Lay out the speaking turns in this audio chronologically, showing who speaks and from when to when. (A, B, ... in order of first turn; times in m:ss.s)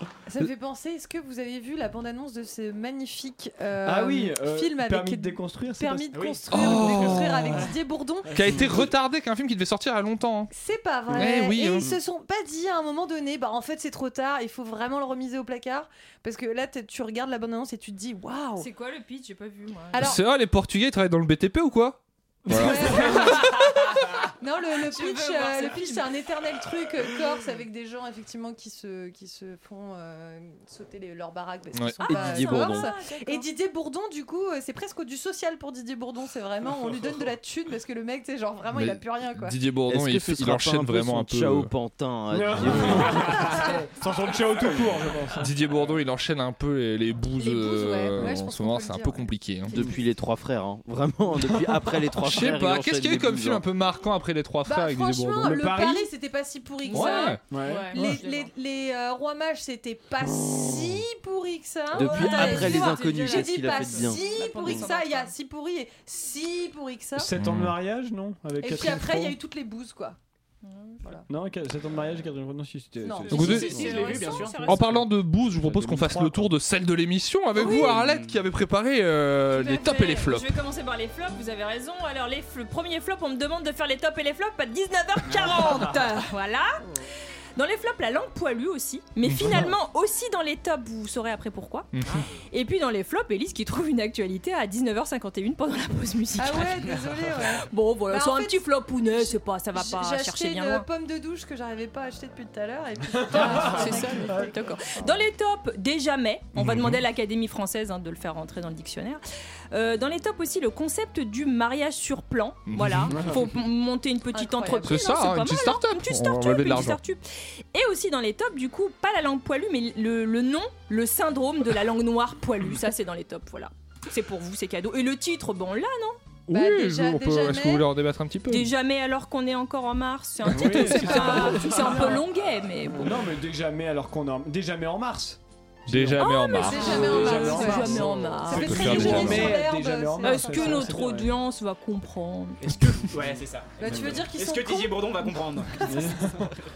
0:00.2-0:08.6 A
0:03.8-0:06.2 B
0:06.1-0:06.9 C
0:06.5-0:07.7 D
0:08.3-0:08.8 B
0:08.3-0:10.5 D
0:10.5-0:18.7 A
0:11.1-0:12.0 D
0:18.6-0:20.0 E
0:19.9-0:20.2 A
0:20.0-0:23.6 D
0:22.4-0:23.2 B
0:22.5-0:23.5 A
0:24.4-0:39.6 A
0:24.8-0:26.1 E
0:31.7-0:32.0 D
0:32.1-0:32.9 F
0:32.1-0:33.5 E
0:38.7-0:41.7 D
0:39.9-0:43.6 F
0:42.3-0:45.5 B
0:45.4-0:49.8 D
0:47.4-0:49.3 A
0:49.7-0:53.6 F
0:52.1-0:55.6 D
0:54.6-1:07.3 A
0:55.4-0:56.1 B
0:56.9-0:58.5 E
0:56.9-0:57.4 D
0:57.5-0:58.2 B
1:01.9-1:04.3 F
1:01.9-1:05.3 E
1:07.2-1:09.4 B
1:07.4-1:07.8 D
1:08.6-1:10.2 A
1:10.6-1:11.2 E
1:11.3-1:16.5 B
1:13.0-1:14.1 A
1:13.1-1:15.0 E
1:13.3-1:13.8 D
1:13.3-1:14.8 C
1:14.6-1:20.5 D
1:17.6-1:18.4 C
1:17.6-1:17.9 A
1:19.5-1:26.8 E
1:25.3-1:26.0 C
1:27.6-1:31.9 E
1:29.2-1:29.7 D
1:31.9-1:32.2 D
1:32.5-1:36.9 E
1:36.4-1:45.2 A
1:36.8-1:37.3 C
1:37.4-1:40.9 E
1:43.2-1:44.6 B
1:43.3-2:06.2 E
1:46.5-1:47.0 D
1:52.7-1:53.2 D
1:53.1-1:53.4 B
1:54.3-1:55.0 A
1:54.8-1:57.0 D
2:06.5-2:08.7 D
2:06.5-2:07.9 A
2:08.5-2:13.2 E
2:10.5-2:12.2 B
2:10.5-2:11.2 D
2:11.0-2:12.2 A
2:12.9-2:21.3 B
2:15.9-2:19.6 D
2:16.2-2:19.5 E
2:16.6-2:21.0 A
2:20.2-2:23.0 E
2:22.6-2:26.3 C
2:23.8-2:25.1 A
2:23.8-2:24.2 B
2:25.8-2:26.5 B